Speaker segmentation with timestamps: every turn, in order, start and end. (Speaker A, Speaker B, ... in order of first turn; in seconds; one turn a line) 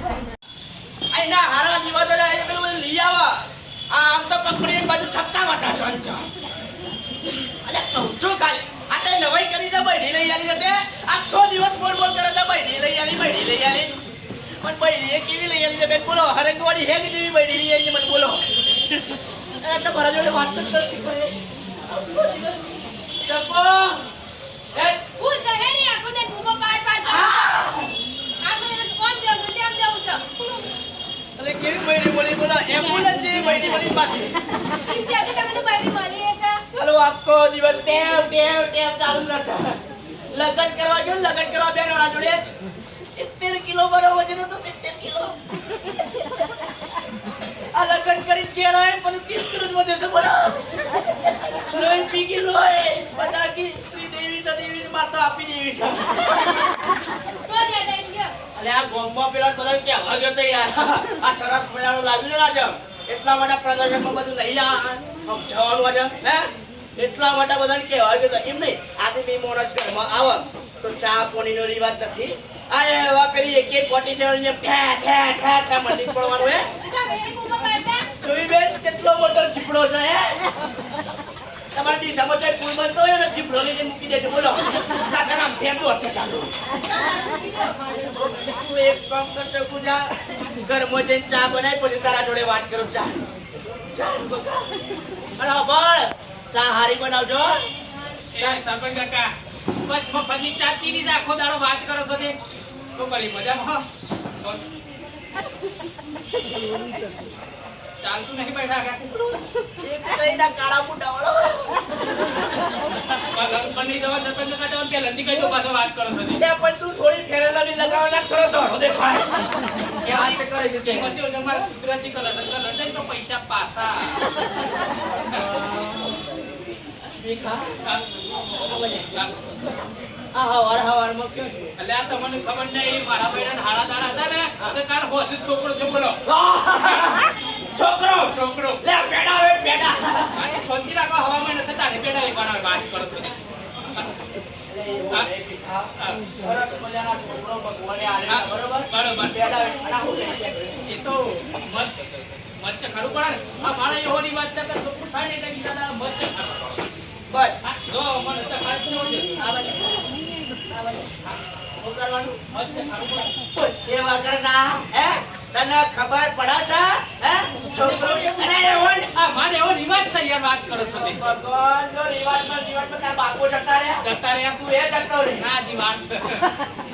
Speaker A: 1.1-6.3
Speaker A: 7.6-13.9
Speaker A: 14.6-18.5
Speaker A: 19.6-22.6
Speaker A: 23.2-24.0
Speaker A: 24.8-25.1
Speaker B: 25.2-27.6
Speaker A: 27.1-27.9
Speaker B: 28.4-30.7
Speaker A: 31.4-34.4
Speaker B: 34.7-36.6
Speaker A: 36.8-39.8
Speaker A: 40.3-42.4
Speaker A: 43.1-45.4
Speaker A: 47.7-50.7
Speaker A: 51.2-56.6
Speaker B: 57.5-58.4
Speaker A: 58.5-76.7
Speaker B: 76.8-78.1
Speaker A: 78.2-80.5
Speaker A: 81.7-86.5
Speaker B: 86.9-88.0
Speaker A: 88.1-93.3
Speaker A: 93.9-94.7
Speaker A: 95.4-97.6
Speaker C: 98.3-99.3
Speaker C: 99.8-102.4
Speaker C: 103.0-103.8
Speaker C: 104.4-104.6
Speaker C: 108.0-109.4
Speaker A: 109.8-111.9
Speaker C: 113.1-116.4
Speaker A: 116.4-119.4
Speaker A: 120.0-121.1
Speaker C: 120.0-124.4
Speaker A: 125.3-126.2
Speaker A: 127.1-127.8
Speaker A: 128.7-129.1
Speaker C: 129.1-129.4
Speaker A: 130.3-131.7
Speaker C: 131.8-136.2
Speaker A: 136.3-140.5
Speaker C: 138.3-138.8
Speaker C: 140.3-143.3
Speaker C: 143.9-144.2
Speaker A: 144.7-150.8
Speaker C: 146.0-146.3
Speaker C: 148.3-149.4
Speaker C: 150.8-151.9
Speaker C: 152.6-156.8
Speaker A: 157.3-157.6
Speaker C: 157.6-159.5
Speaker A: 159.4-160.0
Speaker A: 161.8-162.4
Speaker C: 162.5-163.3
Speaker A: 163.5-169.1
Speaker C: 167.8-168.5
Speaker C: 169.1-171.2
Speaker A: 170.9-175.5
Speaker C: 174.0-174.6
Speaker C: 175.4-176.6